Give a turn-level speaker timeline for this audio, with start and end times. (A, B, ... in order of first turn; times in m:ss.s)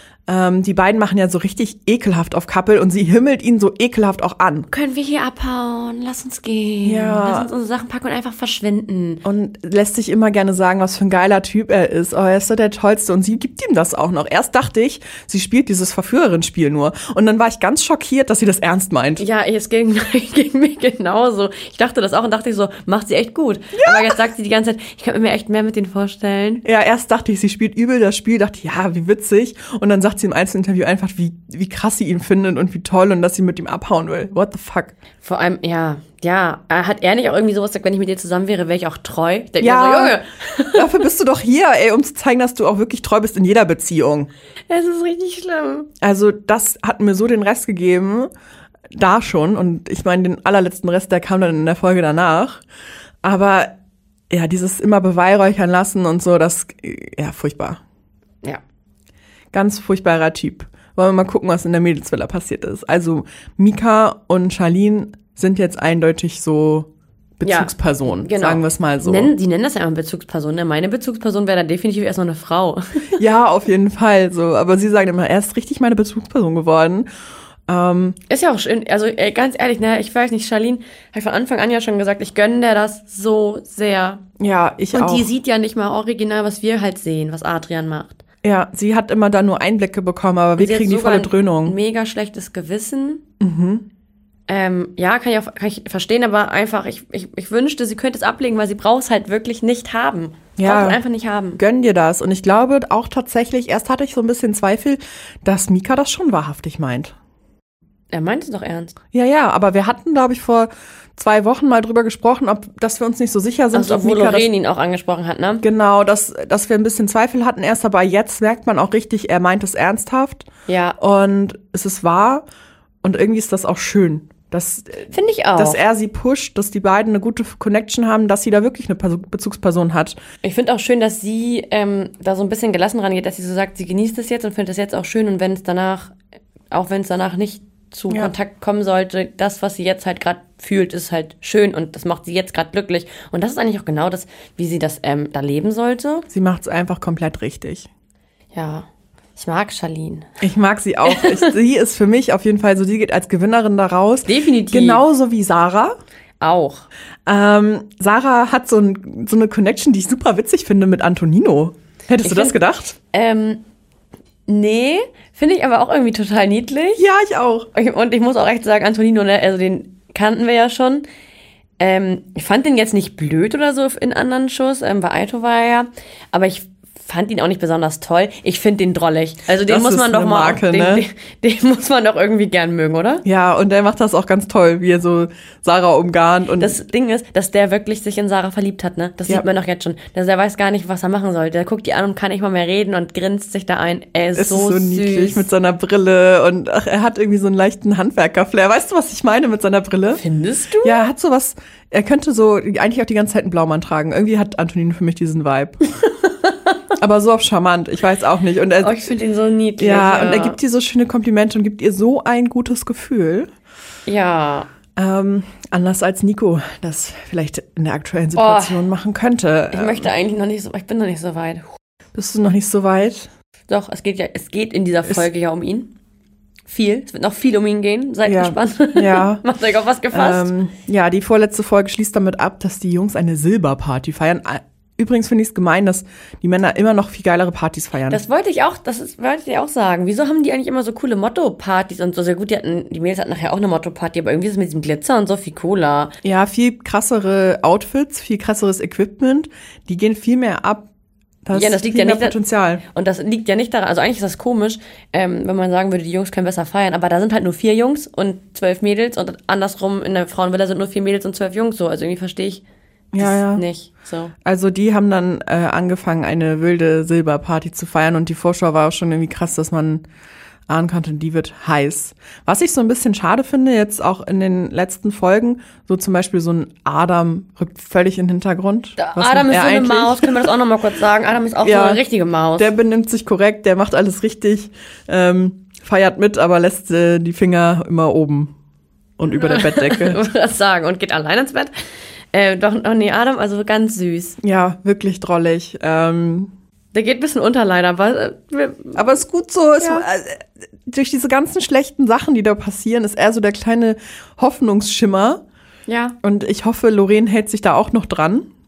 0:00.3-0:04.7 A
0:04.7-0:09.2 B
0:06.8-0:07.5 A
0:09.2-0:19.2 A
0:19.2-0:26.6 B
0:23.7-0:24.2 A
0:26.6-0:34.9 A
0:35.2-0:41.0 B
0:39.6-0:40.2 A
0:40.7-0:44.3 A
0:44.7-0:45.9 B
0:46.0-0:48.3 A
0:48.9-0:52.6 A
0:53.2-0:53.7 A
0:54.3-0:57.8 A
0:59.5-1:06.9 A
1:07.4-1:09.3 A
1:07.4-1:13.1 B
1:13.2-1:17.1 A
1:17.7-1:18.2 A
1:18.3-1:24.2 B
1:24.4-1:25.3 A
1:24.9-1:28.2 B
1:28.4-1:31.8 A
1:30.6-1:33.2 B
1:33.4-1:33.8 A
1:34.5-1:41.6 B
1:40.6-1:41.0 A
1:41.6-1:47.1 A
1:48.1-1:49.0 B
1:49.1-1:54.5 A
1:53.7-1:55.6 B
1:55.6-2:00.5 A
2:00.7-2:01.0 B
2:01.0-2:02.4 A
2:03.0-2:10.2 A
2:05.1-2:05.8 B
2:10.4-2:16.2 B
2:16.7-2:26.3 B
2:26.3-2:27.9 A
2:28.5-2:30.3 B
2:30.4-2:35.9 A
2:31.1-2:31.5 B
2:34.2-2:35.0 B
2:36.4-2:36.8 B
2:37.2-2:43.0 A
2:42.2-2:42.6 B
2:43.1-2:43.6 B
2:44.5-2:47.0 B
2:47.0-2:47.7 A
2:47.7-2:51.0 B
2:51.8-3:03.2 B
2:59.5-3:01.0 A
3:03.2-3:06.8 A
3:06.6-3:15.4 B
3:14.4-3:20.2 A
3:20.1-3:21.0 B
3:20.8-3:25.8 A
3:26.2-3:26.8 B
3:27.0-3:29.1 A
3:28.8-3:30.6 B
3:29.8-3:33.5 A
3:34.0-3:34.7 B
3:35.0-3:40.1 A
3:38.4-3:38.8 B
3:39.7-3:41.7 B
3:42.1-3:43.3 A
3:43.7-3:45.9 B
3:46.7-3:50.5 B
3:48.2-3:49.4 A
3:50.1-3:58.2 A
3:58.1-4:06.1 B
4:06.2-4:10.9 A
4:11.4-4:12.8 A
4:11.5-4:12.4 B
4:12.9-4:22.6 B
4:23.1-4:23.6 A
4:23.2-4:24.3 B
4:24.4-4:30.0 A
4:30.7-4:40.5 A
4:39.0-4:42.7 B
4:41.6-4:42.0 A
4:42.6-4:48.5 A
4:49.2-4:50.2 A
4:49.3-4:51.7 B
4:52.3-4:54.4 B
4:54.4-4:56.5 A
4:56.9-4:59.1 B
4:58.9-5:05.4 A
5:05.9-5:06.2 B
5:06.2-5:08.5 A